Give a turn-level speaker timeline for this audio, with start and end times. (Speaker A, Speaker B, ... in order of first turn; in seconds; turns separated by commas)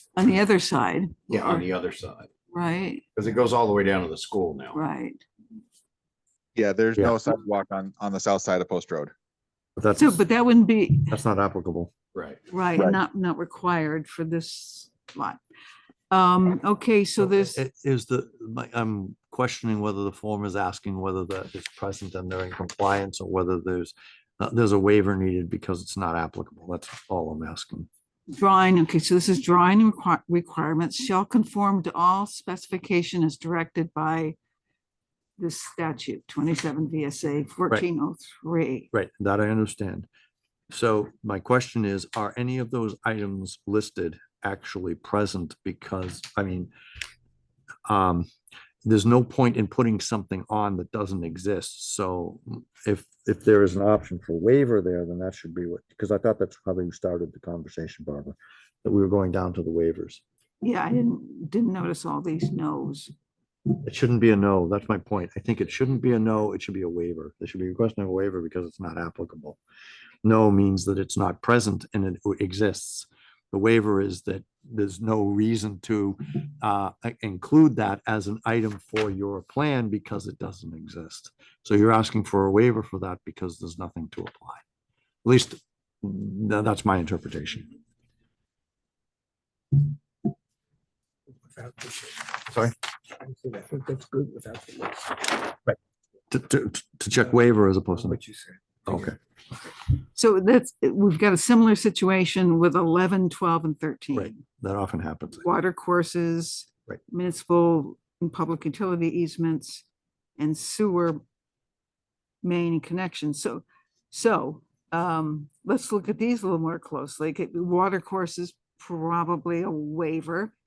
Speaker A: 0.1-1.7, Speaker B: 1.3-2.3, Speaker A: 2.5-3.0, Speaker B: 3.1-4.8, Speaker A: 4.7-5.2, Speaker C: 6.5-9.1, Speaker D: 9.8-10.2, Speaker A: 9.9-11.2, Speaker D: 11.1-11.9, Speaker B: 12.1-12.4, Speaker A: 12.5-15.4, Speaker A: 16.1-17.6, Speaker D: 17.2-27.9, Speaker A: 28.3-34.4, Speaker A: 35.4-38.9, Speaker D: 38.9-40.1, Speaker D: 40.7-46.7, Speaker D: 47.9-48.3, Speaker D: 48.8-60.2, Speaker A: 60.6-63.1, Speaker D: 63.8-69.6, Speaker D: 70.2-84.6, Speaker D: 85.2-87.7, Speaker E: 91.5-92.2, Speaker E: 93.2-95.1, Speaker D: 96.3-98.2, Speaker D: 98.8-99.2, Speaker A: 100.1-104.4, Speaker D: 104.1-105.4, Speaker A: 105.4-109.8, Speaker A: 110.4-111.2, Speaker A: 112.4-120.5